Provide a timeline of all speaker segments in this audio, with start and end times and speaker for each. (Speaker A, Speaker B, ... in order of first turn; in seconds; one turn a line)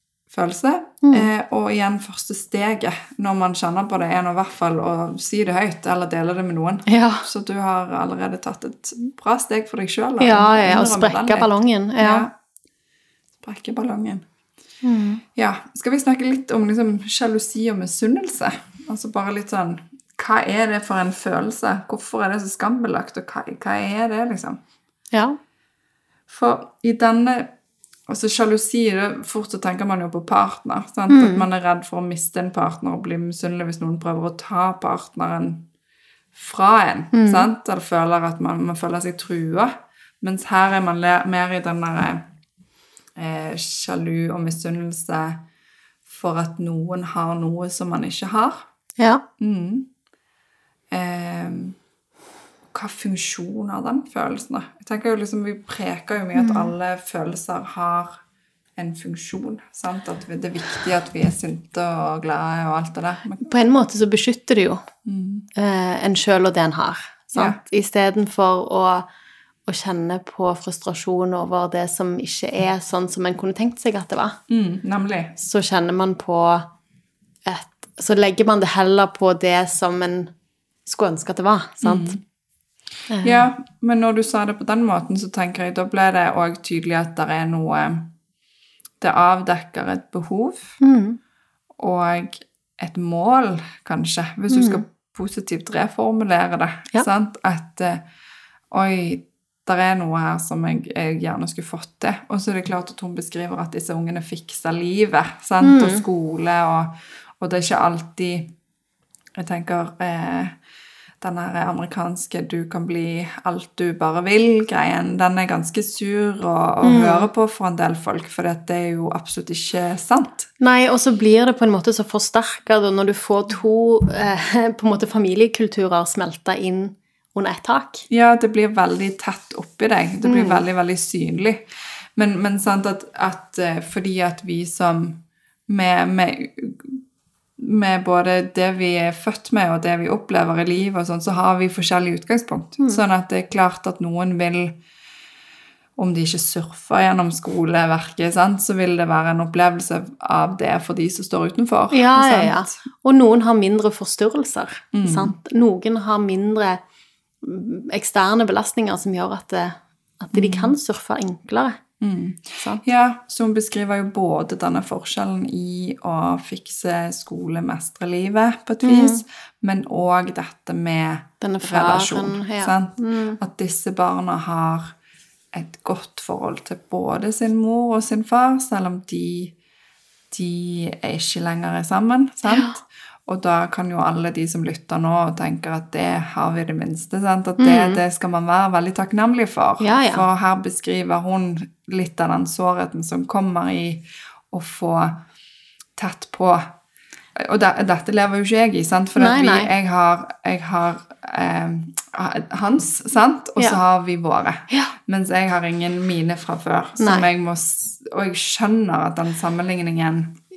Speaker A: 0.3-12.3
Speaker B: 1.0-1.3
Speaker B: 6.9-7.3
Speaker B: 10.2-12.3
Speaker A: 13.4-14.3
Speaker B: 14.8-15.2
Speaker A: 15.3-24.6
Speaker B: 25.1-25.4
Speaker A: 26.3-27.5
Speaker A: 28.1-35.7
Speaker B: 31.1-31.5
Speaker A: 36.3-42.3
Speaker B: 37.1-37.5
Speaker A: 43.2-45.5
Speaker A: 46.1-48.7
Speaker B: 49.0-49.2
Speaker A: 49.4-49.9
Speaker A: 50.9-51.8
Speaker A: 52.7-58.2
Speaker B: 56.4-56.7
Speaker A: 58.8-63.4
Speaker B: 63.4-64.8
Speaker A: 65.1-65.5
Speaker B: 65.6-69.1
Speaker A: 67.3-67.6
Speaker B: 69.7-74.4
Speaker A: 74.5-75.4
Speaker B: 75.4-76.7
Speaker B: 77.5-80.3
Speaker B: 80.9-82.2
Speaker A: 81.8-82.2
Speaker B: 83.1-83.5
Speaker A: 83.2-88.1
Speaker A: 89.0-90.8
Speaker B: 90.8-91.2
Speaker A: 91.8-98.0
Speaker B: 94.5-94.8
Speaker A: 98.7-108.5
Speaker B: 105.6-106.0
Speaker A: 109.4-110.6
Speaker A: 111.2-120.5
Speaker B: 116.8-117.3
Speaker B: 120.6-128.1
Speaker A: 128.1-131.7
Speaker B: 130.2-130.6
Speaker A: 132.2-137.0
Speaker A: 137.6-144.8
Speaker A: 146.0-152.8
Speaker B: 151.9-156.8
Speaker A: 154.9-155.3
Speaker B: 157.4-161.8
Speaker A: 160.3-160.8
Speaker A: 162.0-174.9
Speaker B: 168.8-169.2
Speaker B: 171.4-173.4
Speaker A: 175.5-179.6
Speaker A: 180.3-195.2
Speaker B: 182.5-182.8
Speaker B: 187.6-188.0
Speaker B: 189.8-190.2
Speaker A: 196.0-196.7
Speaker A: 197.3-210.4
Speaker B: 199.2-199.7
Speaker B: 207.0-207.3